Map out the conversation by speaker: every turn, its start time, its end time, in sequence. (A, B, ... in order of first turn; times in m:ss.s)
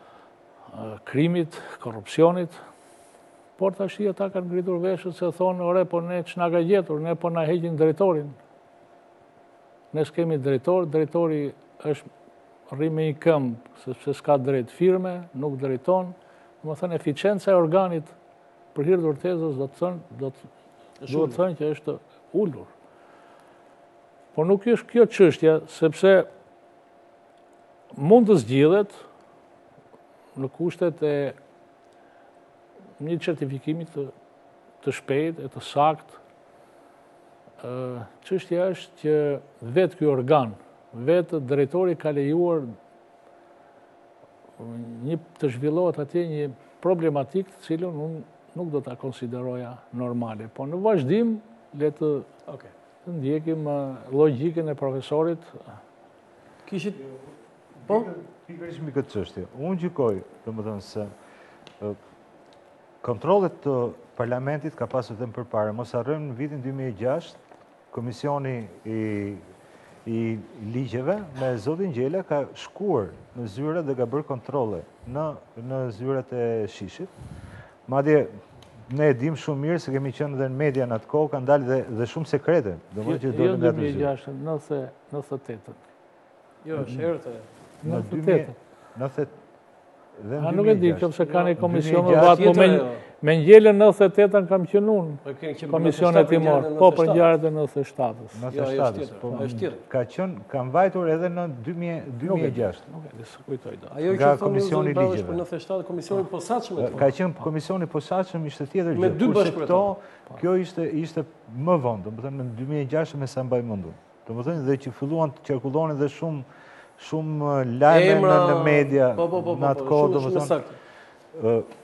0:00.7-0:02.6 A
0:03.6-0:08.4 A
0:09.9-0:12.1 A
0:12.7-0:18.1 A
0:18.7-0:20.5 A
0:21.0-0:21.4 B
0:21.1-0:22.7 A
0:24.3-0:26.3 A
0:27.9-0:29.0 A
0:30.4-0:31.4 A
0:33.0-0:34.1 A
0:34.8-0:36.2 A
0:37.6-0:42.7 A
0:44.6-0:52.3 A
0:52.5-0:52.7 B
0:53.0-0:55.6 A
0:56.6-0:57.0 B
0:57.8-1:01.1 C
1:03.0-1:07.4 C
1:07.9-1:09.4 C
1:10.0-1:17.1 C
1:17.9-1:18.3 C
1:18.8-1:24.1 C
1:23.0-1:25.8 A
1:26.6-1:27.5 B
1:27.8-1:28.5 A
1:27.8-1:29.3 C
1:30.2-1:32.7 C
1:30.4-1:38.4 A
1:31.2-1:33.0 B
1:35.2-1:37.3 B
1:38.3-1:42.8 C
1:38.5-1:39.8 B
1:42.2-1:44.0 A
1:43.9-1:47.0 B
1:44.0-1:45.4 C
1:46.8-1:56.4 C
1:48.9-1:49.9 B
1:57.0-2:00.6 C
1:57.9-2:00.8 B
2:01.3-2:01.7 C